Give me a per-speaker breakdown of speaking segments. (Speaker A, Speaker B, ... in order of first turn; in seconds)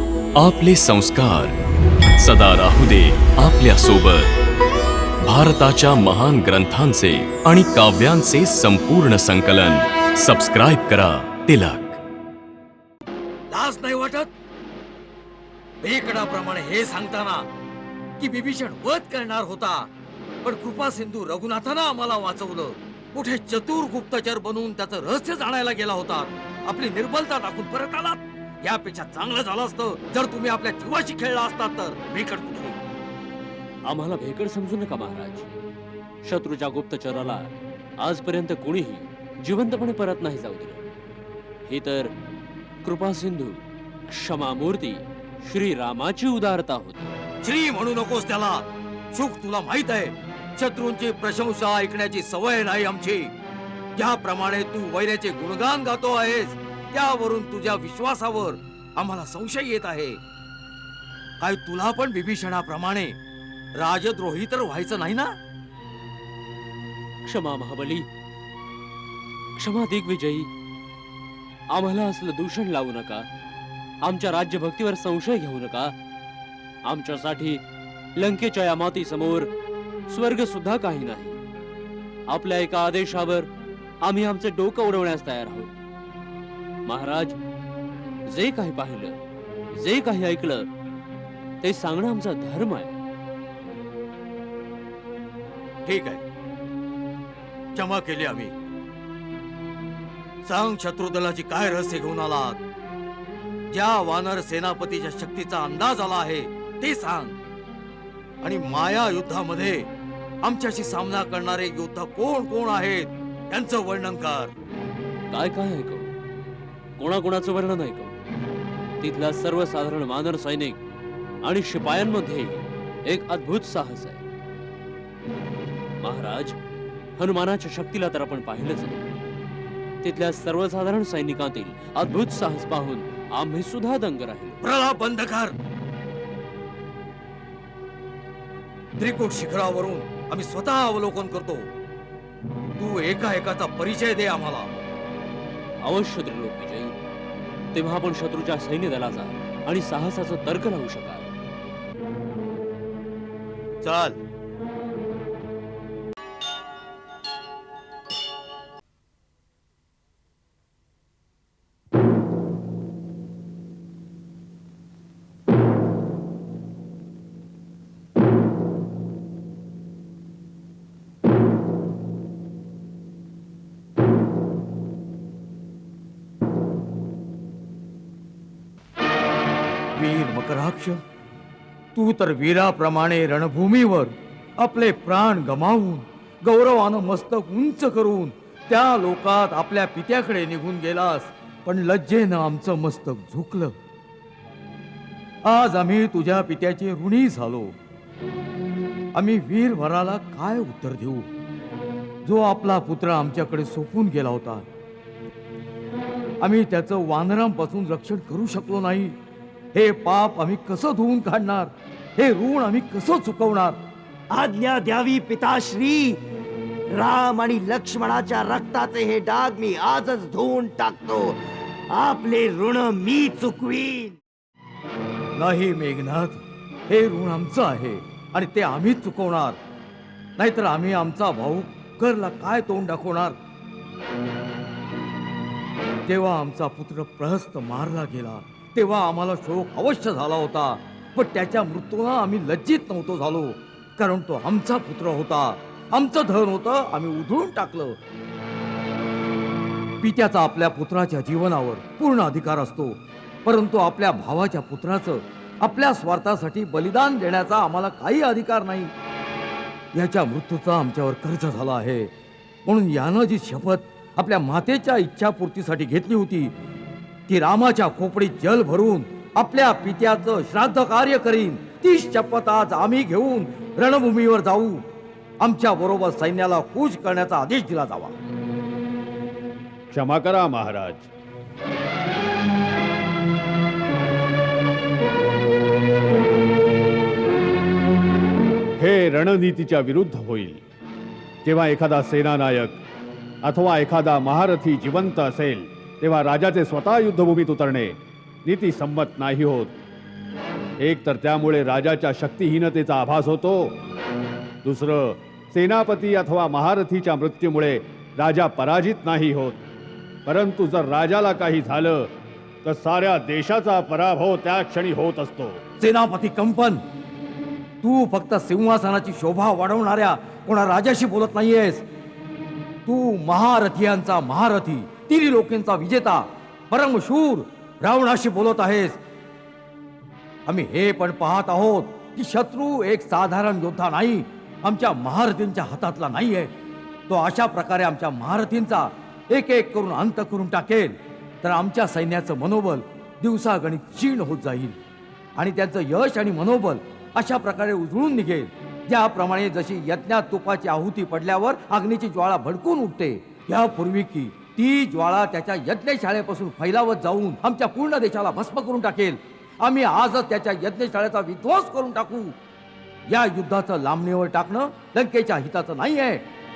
Speaker A: 0.3-1.6, 2.2-4.3, 5.2-12.0
Speaker B: 13.5-14.3, 15.8-17.4, 18.2-19.9, 20.4-32.8, 47.4-53.3, 54.0-60.2, 61.4-63.2, 63.8-65.3, 95.8-96.2, 97.7-98.5, 100.4-102.6, 103.7-107.4, 108.4-109.9, 110.4-114.5, 134.6-135.6, 139.0-141.7, 142.8-144.7, 153.8-154.2, 179.9-181.0, 181.9-193.8, 195.4-197.7, 199.1-201.3, 202.2-204.7, 206.4-209.2, 209.7-213.8, 225.4-229.6, 230.4-233.3, 236.1-248.0, 250.0-258.9, 259.9-262.1, 262.6-266.5, 267.3-274.8, 275.4-278.1, 315.8-316.8, 317.8-321.8, 322.9-329.0, 330.5-336.5, 337.1-344.8, 345.4-362.3, 363.1-366.2
Speaker C: 33.9-35.5, 36.2-40.8, 41.7-42.1, 42.8-47.1, 67.2-68.1, 69.6-70.5, 71.7-73.3, 74.0-76.0, 76.9-77.6, 78.2-79.5, 80.1-81.4, 82.3-83.5, 84.0-85.7, 86.9-87.4, 88.3-89.2, 89.8-90.7, 91.6-93.0, 115.3-116.1, 117.0-118.2, 119.0-120.8, 121.4-124.2, 126.0-126.5, 127.2-129.0, 130.0-134.6, 145.8-146.9, 147.7-151.3
Speaker D: 214.3-216.2, 216.9-224.2
Speaker E: 279.9-281.1, 288.8-290.6, 291.4-292.8, 293.4-299.8, 300.8-303.8, 304.6-309.6, 310.3-312.1, 312.6-315.6